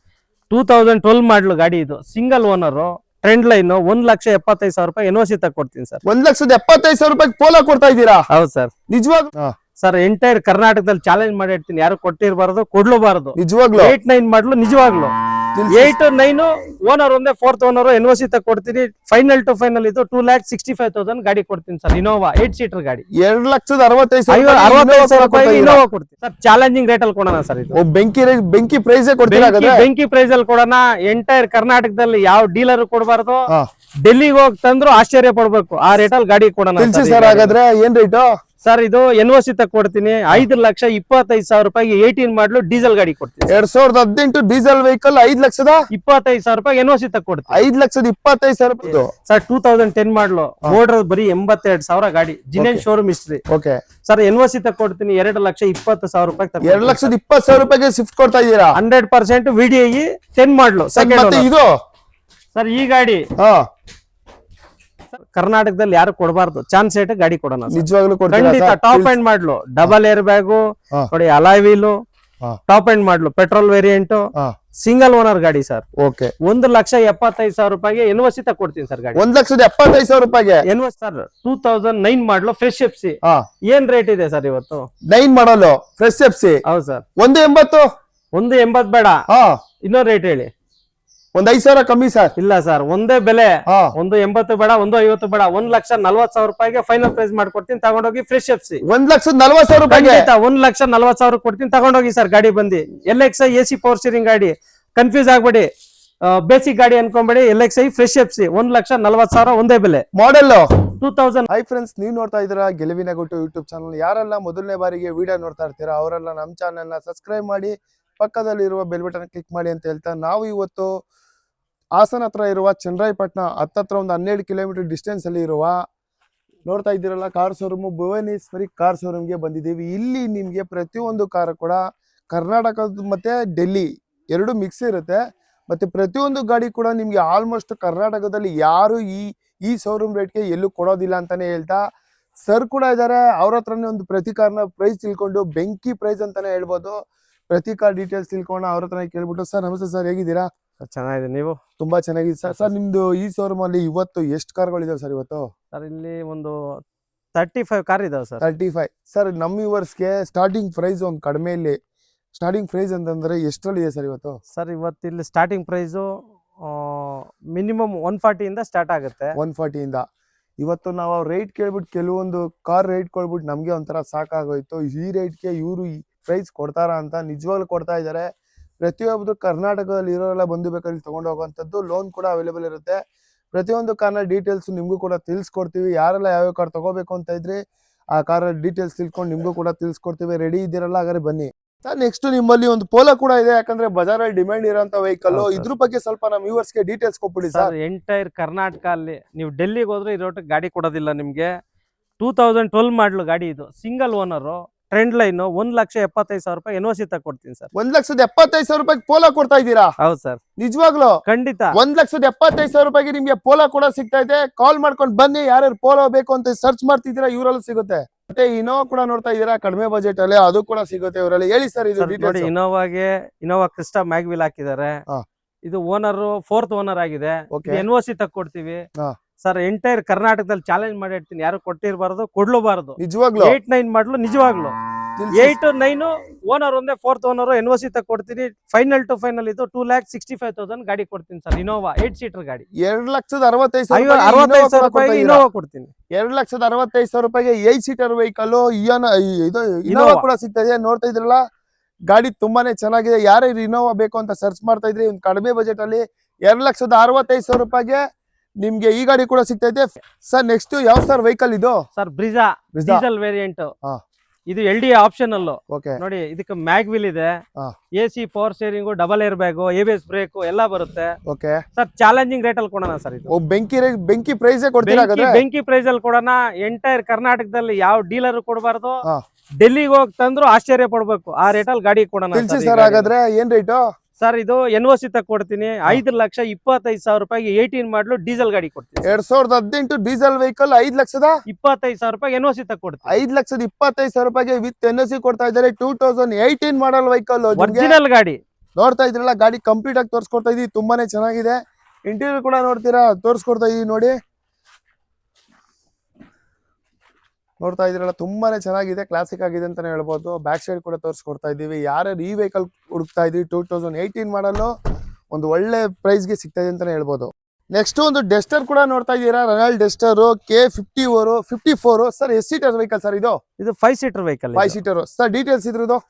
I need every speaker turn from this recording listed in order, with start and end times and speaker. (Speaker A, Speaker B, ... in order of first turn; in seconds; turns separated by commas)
Speaker A: 0.5-6.0, Speaker B: 6.0-8.2, Speaker A: 8.3-8.7, Speaker B: 8.9-9.5, Speaker A: 9.8-15.1, Speaker B: 13.4-13.9, Speaker B: 15.5-15.9, Speaker A: 15.7-23.1, Speaker B: 23.2-25.8, Speaker A: 24.3-27.8, Speaker B: 27.7-29.9, Speaker A: 29.3-33.5, Speaker A: 34.0-37.5, Speaker B: 36.8-38.3, Speaker A: 38.6-43.5, Speaker B: 43.5-45.8, Speaker A: 45.9-47.6, Speaker B: 47.5-49.1, Speaker A: 48.9-53.4, Speaker B: 52.6-52.8, Speaker B: 53.5-53.8, Speaker A: 54.1-57.1, Speaker B: 56.6-58.8, Speaker A: 58.8-61.5, Speaker B: 61.0-61.7, Speaker A: 62.5-63.2, Speaker B: 63.4-63.6, Speaker A: 65.3-71.9, Speaker B: 67.7-69.2, Speaker A: 72.7-74.2, Speaker A: 74.8-75.8, Speaker B: 76.0-76.3, Speaker A: 76.4-79.2, Speaker B: 79.2-80.6, Speaker A: 80.7-84.9, Speaker B: 85.1-86.6, Speaker A: 86.7-87.0, Speaker B: 87.2-87.8, Speaker A: 88.3-89.2, Speaker B: 89.3-89.6, Speaker A: 89.8-90.5, Speaker B: 91.3-92.3, Speaker A: 92.4-98.8, Speaker B: 98.9-100.3, Speaker A: 99.9-105.7, Speaker A: 106.3-110.0, Speaker B: 110.1-110.7, Speaker A: 111.0-111.5, Speaker B: 111.5-121.0, Speaker B: 122.0-125.8, Speaker B: 126.7-141.8, Speaker B: 142.4-147.0, Speaker B: 147.5-150.5, Speaker A: 150.8-151.6, Speaker B: 151.8-155.5, Speaker A: 155.7-156.8, Speaker A: 157.3-158.4, Speaker B: 158.4-161.8, Speaker B: 162.3-164.4, Speaker A: 164.6-166.1, Speaker A: 166.6-169.3, Speaker B: 169.4-170.0, Speaker B: 170.6-178.3, Speaker B: 178.8-183.0, Speaker B: 183.5-187.6, Speaker B: 188.1-197.7, Speaker A: 195.3-195.7, Speaker A: 197.5-201.5, Speaker A: 202.2-207.7, Speaker B: 207.7-209.9, Speaker A: 210.0-210.4, Speaker B: 210.6-211.2, Speaker A: 211.3-211.7, Speaker B: 211.7-222.5, Speaker A: 222.0-225.0, Speaker A: 225.6-228.8, Speaker B: 227.5-227.8, Speaker A: 229.4-234.7, Speaker B: 233.0-233.6, Speaker B: 235.2-235.6, Speaker A: 235.3-242.7, Speaker B: 242.8-245.4, Speaker A: 243.9-245.9, Speaker B: 246.1-251.4, Speaker A: 249.9-250.2, Speaker B: 252.1-258.0, Speaker B: 258.6-261.8, Speaker A: 261.9-263.7, Speaker B: 262.7-263.0, Speaker A: 264.5-267.4, Speaker B: 265.7-266.0, Speaker A: 268.0-271.1, Speaker B: 271.3-271.6, Speaker A: 271.8-273.3, Speaker B: 273.3-275.4, Speaker A: 274.8-279.0, Speaker A: 279.6-283.1, Speaker B: 282.3-283.8, Speaker A: 284.2-289.2, Speaker B: 289.1-291.3, Speaker A: 291.5-293.2, Speaker B: 293.1-297.9, Speaker A: 297.6-298.4, Speaker B: 298.8-304.1, Speaker B: 307.6-314.7, Speaker B: 315.3-323.4, Speaker A: 323.6-324.8, Speaker B: 324.6-326.0